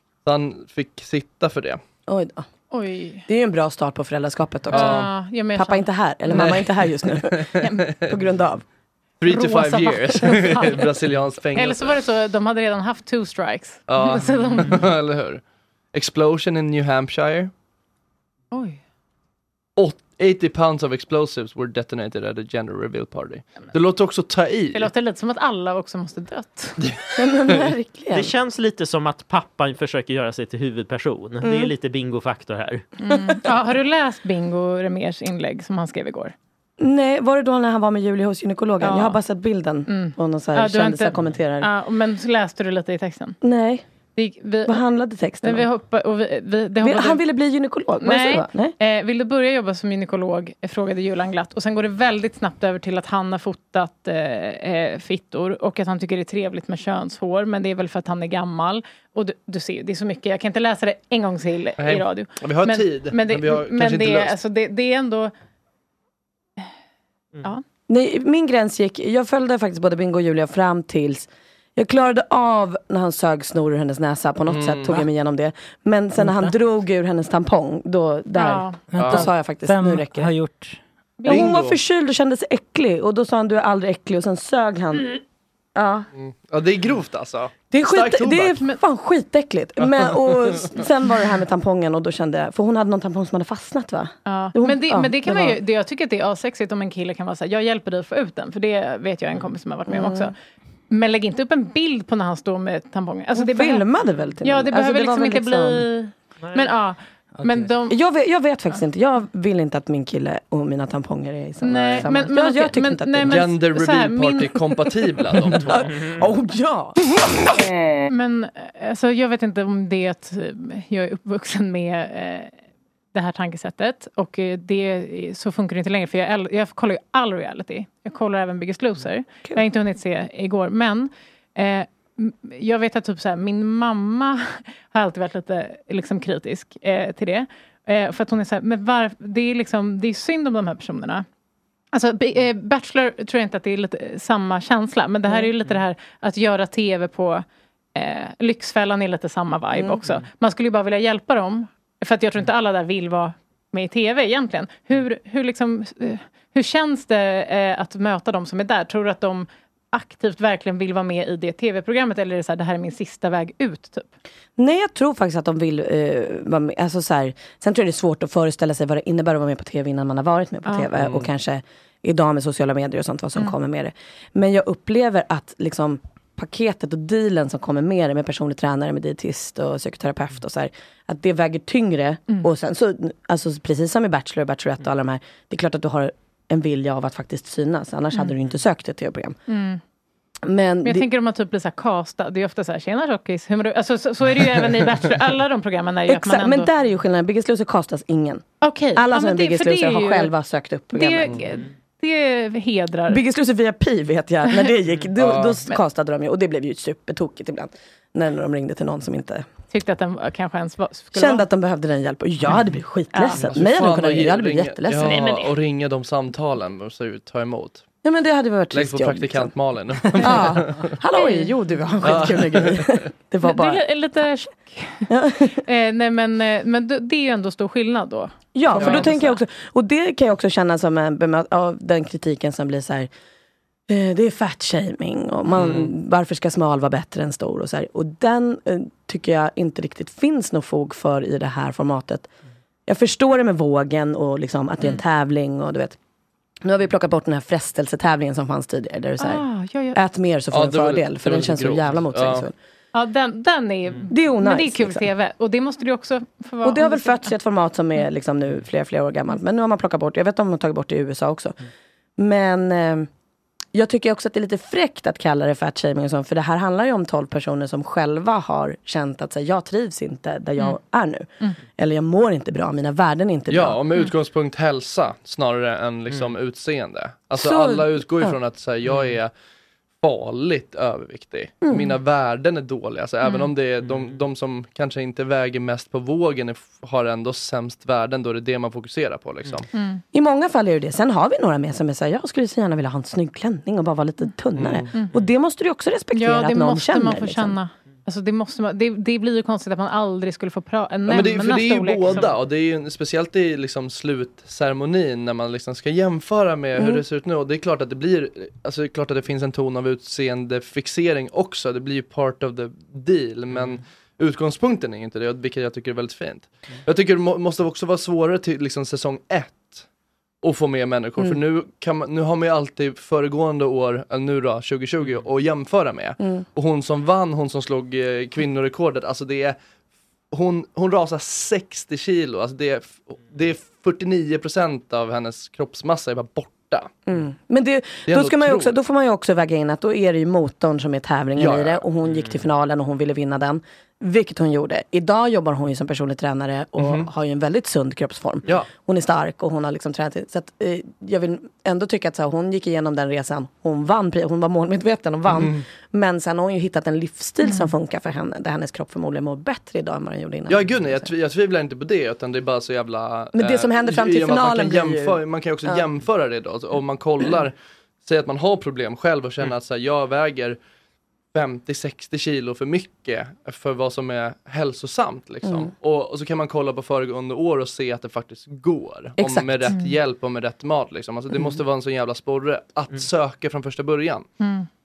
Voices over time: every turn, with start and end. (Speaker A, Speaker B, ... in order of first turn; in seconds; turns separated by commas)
Speaker A: 0.2-1.8, Speaker B: 2.1-2.5, Speaker C: 2.7-3.3, Speaker B: 3.3-7.5, Speaker A: 4.7-5.1, Speaker C: 4.7-6.7, Speaker A: 6.3-8.2, Speaker C: 7.6-7.8, Speaker B: 8.0-8.6, Speaker A: 9.2-12.0, Speaker C: 9.3-10.9, Speaker C: 11.5-14.8, Speaker A: 13.9-17.5, Speaker C: 18.5-18.8, Speaker A: 19.8-24.9, Speaker C: 24.7-26.8, Speaker A: 26.8-27.7, Speaker B: 27.2-28.4, Speaker D: 28.1-32.9, Speaker B: 31.4-31.7, Speaker C: 33.0-36.4, Speaker B: 36.8-41.7, Speaker C: 38.8-39.2, Speaker C: 39.9-43.4, Speaker B: 43.4-43.9, Speaker C: 44.2-44.8, Speaker B: 44.7-45.7, Speaker C: 45.4-47.2, Speaker B: 46.8-48.8, Speaker C: 48.0-65.3, Speaker A: 61.8-64.4, Speaker B: 67.9-80.3, Speaker A: 74.5-75.1, Speaker E: 76.2-76.6, Speaker C: 78.3-78.8, Speaker E: 78.9-80.8, Speaker A: 79.0-79.3, Speaker C: 81.2-81.5, Speaker B: 81.3-85.2, Speaker A: 81.3-81.8, Speaker B: 85.8-86.1, Speaker A: 86.2-88.6, Speaker B: 87.7-95.6, Speaker A: 89.8-90.7, Speaker C: 94.3-100.3, Speaker B: 99.9-100.3, Speaker C: 100.9-103.9, Speaker B: 103.3-105.9, Speaker C: 104.4-108.0, Speaker D: 106.4-106.7, Speaker E: 107.4-107.7, Speaker B: 107.9-113.6, Speaker C: 111.6-114.5, Speaker A: 113.3-115.9, Speaker B: 115.3-117.5, Speaker D: 115.8-116.2, Speaker C: 118.1-122.5, Speaker C: 123.1-141.3, Speaker C: 141.9-164.1, Speaker B: 164.6-189.4, Speaker A: 170.9-171.3, Speaker C: 189.5-189.8, Speaker B: 190.4-191.1, Speaker C: 190.8-196.7, Speaker B: 196.1-201.4, Speaker C: 198.6-200.3, Speaker C: 200.9-203.2, Speaker B: 203.1-209.5, Speaker A: 205.2-205.6, Speaker C: 209.7-211.5, Speaker B: 211.1-215.3, Speaker C: 213.1-213.4, Speaker A: 213.3-217.8, Speaker C: 215.0-215.4, Speaker B: 218.0-219.5, Speaker A: 218.7-221.0, Speaker B: 220.2-223.8, Speaker C: 221.1-221.5, Speaker A: 222.0-223.1, Speaker C: 223.4-229.4, Speaker B: 225.1-225.6, Speaker B: 228.5-233.1, Speaker A: 228.7-229.2, Speaker B: 233.9-242.3, Speaker A: 235.5-235.9, Speaker B: 242.9-246.0, Speaker B: 246.7-252.5, Speaker C: 249.2-250.0, Speaker A: 250.5-252.5, Speaker C: 252.9-257.4, Speaker B: 254.1-255.1, Speaker B: 256.6-261.6, Speaker B: 262.2-263.1, Speaker B: 263.7-273.8, Speaker A: 273.5-279.3, Speaker B: 277.4-278.4, Speaker A: 280.0-289.7, Speaker B: 281.6-281.9, Speaker C: 283.2-283.5, Speaker C: 289.7-290.0, Speaker B: 290.1-297.6, Speaker A: 294.6-295.1, Speaker C: 296.1-302.4, Speaker A: 301.1-319.9, Speaker B: 306.8-307.0, Speaker A: 320.4-329.6, Speaker B: 326.2-326.5, Speaker A: 330.3-336.9, Speaker B: 337.1-361.1, Speaker A: 338.1-338.8, Speaker A: 341.4-341.9, Speaker D: 342.1-342.4, Speaker A: 346.8-347.1, Speaker A: 355.3-355.6, Speaker C: 357.4-357.8, Speaker A: 360.5-370.6, Speaker B: 363.3-365.9, Speaker A: 371.3-384.3, Speaker B: 375.4-375.7, Speaker B: 379.2-379.7, Speaker C: 384.4-384.7